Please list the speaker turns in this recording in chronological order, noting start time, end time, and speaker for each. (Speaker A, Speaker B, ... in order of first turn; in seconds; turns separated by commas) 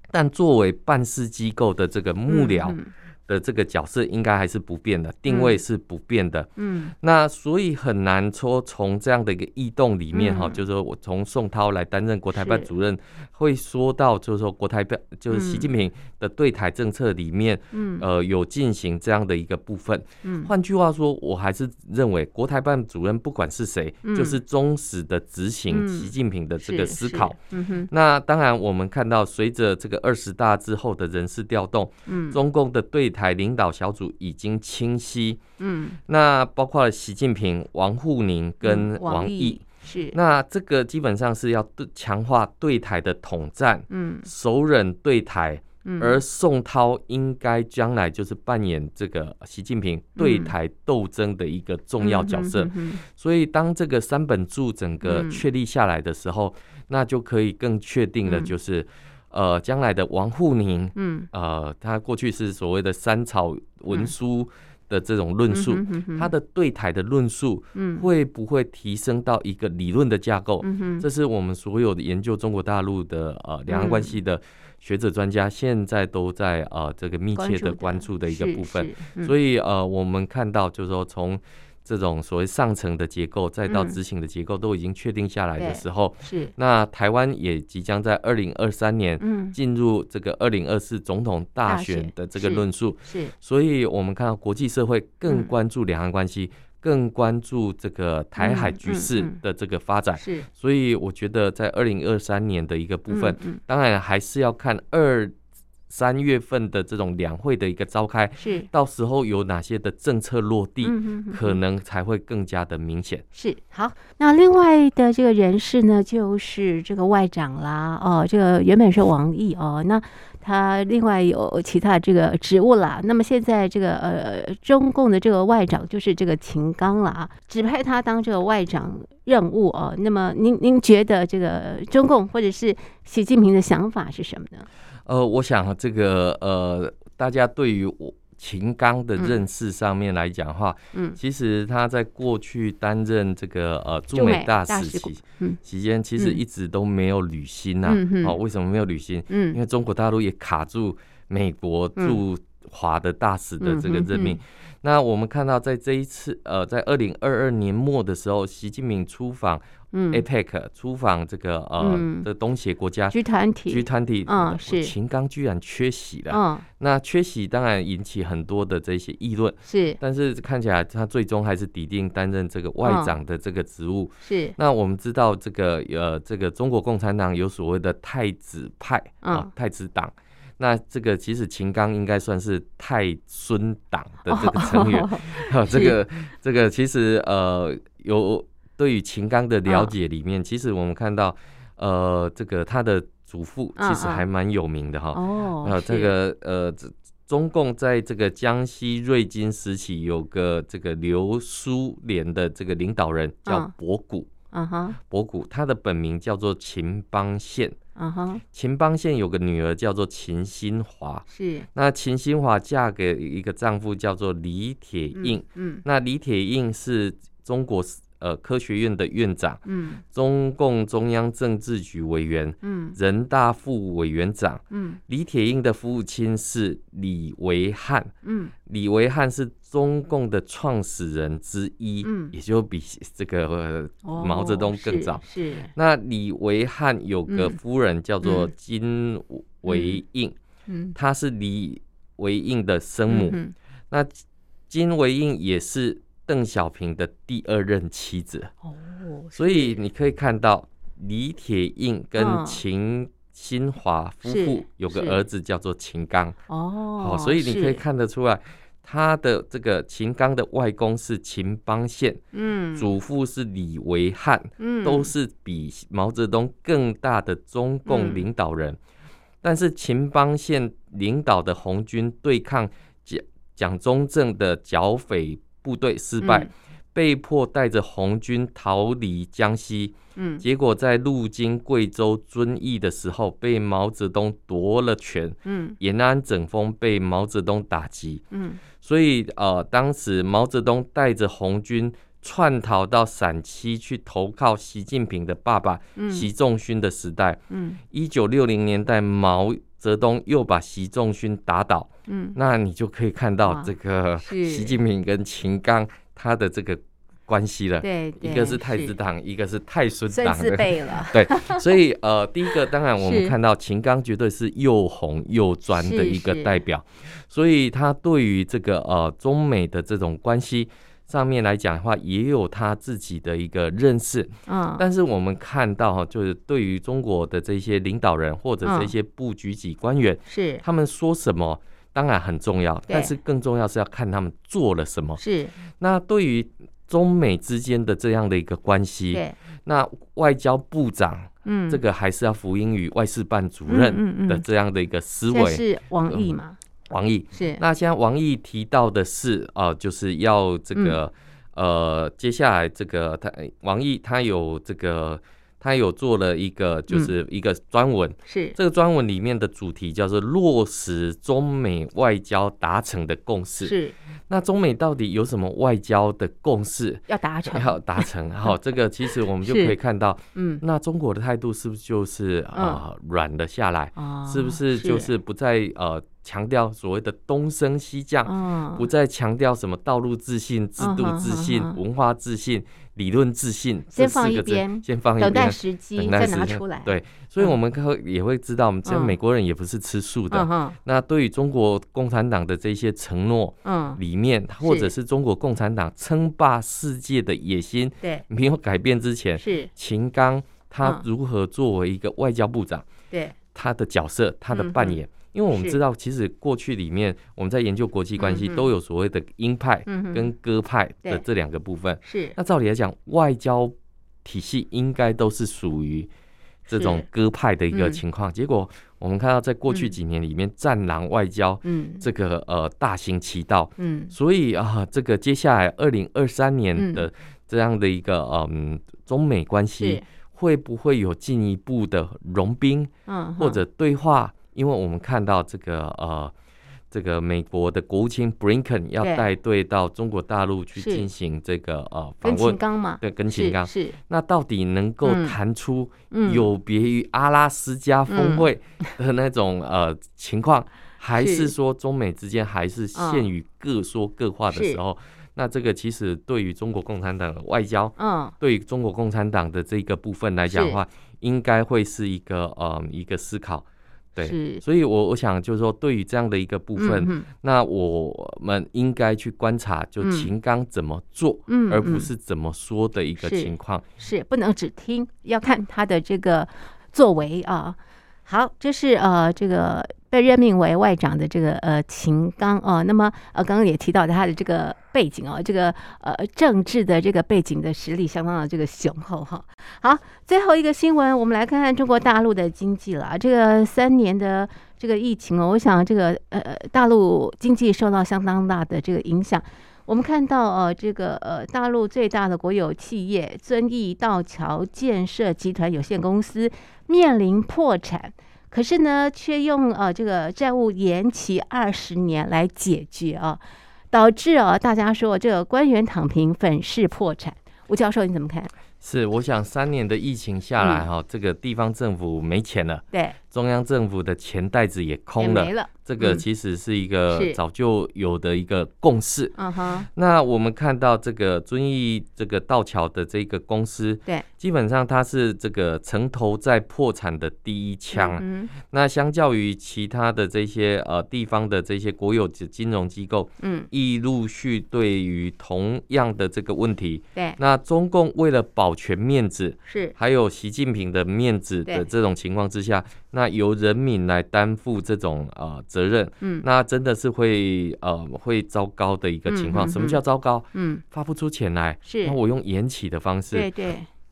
Speaker A: 0.1-27.4, Speaker B: 2.3-2.9, Speaker B: 5.3-5.6, Speaker B: 6.6-6.9, Speaker B: 10.1-10.6, Speaker B: 12.3-12.7, Speaker B: 15.3-15.7, Speaker B: 17.7-18.0, Speaker B: 20.2-20.5, Speaker B: 24.0-24.4, Speaker B: 25.7-27.9, Speaker A: 27.9-35.4, Speaker B: 32.0-32.4, Speaker B: 35.6-36.0, Speaker A: 36.0-105.3, Speaker B: 38.6-40.1, Speaker B: 43.9-44.3, Speaker B: 45.8-46.2, Speaker B: 50.1-50.5, Speaker B: 52.0-53.0, Speaker B: 55.0-55.4, Speaker B: 58.2-58.5, Speaker B: 60.9-61.3, Speaker B: 65.5-66.3, Speaker B: 67.7-68.0, Speaker B: 70.6-71.0, Speaker B: 73.7-74.2, Speaker B: 77.3-79.3, Speaker B: 83.7-84.0, Speaker B: 85.6-86.5, Speaker B: 89.2-89.5, Speaker B: 91.7-93.3, Speaker B: 98.4-99.4, Speaker B: 100.2-100.5, Speaker B: 103.1-103.6, Speaker A: 105.9-113.2, Speaker B: 108.4-108.7, Speaker B: 110.8-111.6, Speaker B: 113.3-134.7, Speaker A: 135.1-163.2, Speaker B: 144.1-145.6, Speaker B: 147.8-148.3, Speaker B: 149.3-149.6, Speaker B: 153.6-154.4, Speaker B: 159.9-160.2, Speaker B: 161.8-162.3, Speaker B: 163.1-164.9, Speaker A: 163.7-204.3, Speaker B: 166.3-166.7, Speaker B: 169.7-170.0, Speaker B: 172.8-173.1, Speaker B: 174.2-174.6, Speaker B: 179.2-179.5, Speaker B: 184.2-185.9, Speaker B: 189.7-189.9, Speaker B: 193.8-194.2, Speaker B: 195.1-196.1, Speaker B: 203.4-203.7, Speaker B: 204.5-205.0, Speaker A: 205.0-207.8, Speaker B: 208.0-208.4, Speaker A: 208.5-228.1, Speaker B: 211.3-211.7, Speaker B: 215.1-215.8, Speaker B: 219.7-220.0, Speaker B: 222.6-222.9, Speaker B: 224.7-225.0, Speaker B: 228.2-228.5, Speaker A: 228.7-235.2, Speaker B: 232.0-232.3, Speaker B: 234.0-235.7, Speaker A: 235.7-240.3, Speaker B: 237.3-237.6, Speaker B: 238.2-238.5, Speaker B: 239.7-240.0, Speaker B: 240.7-240.9, Speaker A: 240.9-243.4, Speaker B: 243.1-243.5, Speaker A: 243.9-248.5, Speaker B: 248.6-249.8, Speaker A: 249.3-256.4, Speaker B: 252.2-252.6, Speaker B: 254.2-255.2, Speaker B: 256.5-257.8, Speaker A: 257.0-262.2, Speaker B: 262.3-262.9, Speaker A: 262.7-268.8, Speaker B: 264.6-265.1, Speaker B: 267.9-268.2, Speaker A: 269.4-288.2, Speaker B: 276.2-276.5, Speaker B: 280.1-280.4, Speaker B: 285.4-285.8, Speaker B: 288.3-288.6, Speaker A: 288.8-335.2, Speaker B: 295.9-296.3, Speaker B: 297.5-297.8, Speaker B: 302.1-302.4, Speaker B: 303.4-304.8, Speaker B: 307.8-308.9, Speaker B: 310.1-311.6, Speaker B: 312.9-313.3, Speaker B: 315.7-316.6, Speaker B: 324.5-324.8, Speaker B: 328.6-328.9, Speaker B: 330.3-330.6, Speaker B: 332.9-333.1, Speaker B: 335.2-335.5, Speaker A: 335.8-346.3, Speaker B: 341.4-341.8, Speaker B: 343.7-344.4, Speaker B: 345.3-346.6, Speaker A: 346.9-363.7, Speaker B: 347.3-347.6, Speaker B: 358.2-358.6, Speaker B: 363.6-363.9, Speaker A: 364.3-402.9, Speaker B: 367.1-368.1, Speaker B: 369.4-369.7, Speaker B: 370.3-370.6, Speaker B: 372.5-372.8, Speaker B: 373.9-375.1, Speaker B: 378.2-378.9, Speaker B: 380.8-381.8, Speaker B: 383.9-387.5, Speaker B: 388.9-389.1, Speaker B: 390.3-390.8, Speaker B: 393.6-394.0, Speaker B: 394.6-394.9, Speaker B: 399.4-399.7, Speaker B: 403.1-403.4, Speaker A: 403.5-416.1, Speaker B: 404.5-405.0, Speaker B: 405.5-405.8, Speaker B: 408.2-408.6, Speaker B: 409.9-410.3, Speaker B: 412.0-412.4, Speaker A: 416.7-436.3, Speaker B: 416.7-417.0, Speaker B: 417.7-418.0, Speaker B: 419.7-419.9, Speaker B: 421.6-422.0, Speaker B: 423.8-424.1, Speaker B: 426.8-427.1, Speaker B: 429.8-430.0, Speaker B: 433.1-433.6, Speaker A: 436.9-473.8, Speaker B: 439.0-439.2, Speaker B: 440.8-441.1, Speaker B: 442.2-444.0, Speaker B: 445.0-445.4, Speaker B: 446.1-446.5, Speaker B: 448.1-448.5, Speaker B: 451.1-451.5, Speaker B: 452.9-453.3, Speaker B: 454.5-454.8, Speaker B: 458.0-458.3, Speaker B: 460.5-460.8, Speaker B: 464.2-464.6, Speaker B: 466.8-467.3, Speaker B: 470.0-470.3, Speaker B: 471.5-472.1, Speaker B: 473.2-518.5, Speaker A: 518.8-529.4, Speaker B: 525.2-526.2, Speaker B: 527.1-527.4, Speaker B: 529.4-529.9, Speaker A: 529.9-563.5, Speaker B: 537.9-538.5, Speaker B: 543.4-543.7, Speaker B: 549.7-549.9, Speaker B: 559.3-560.0, Speaker B: 560.5-560.8, Speaker B: 561.8-562.2, Speaker B: 563.3-563.9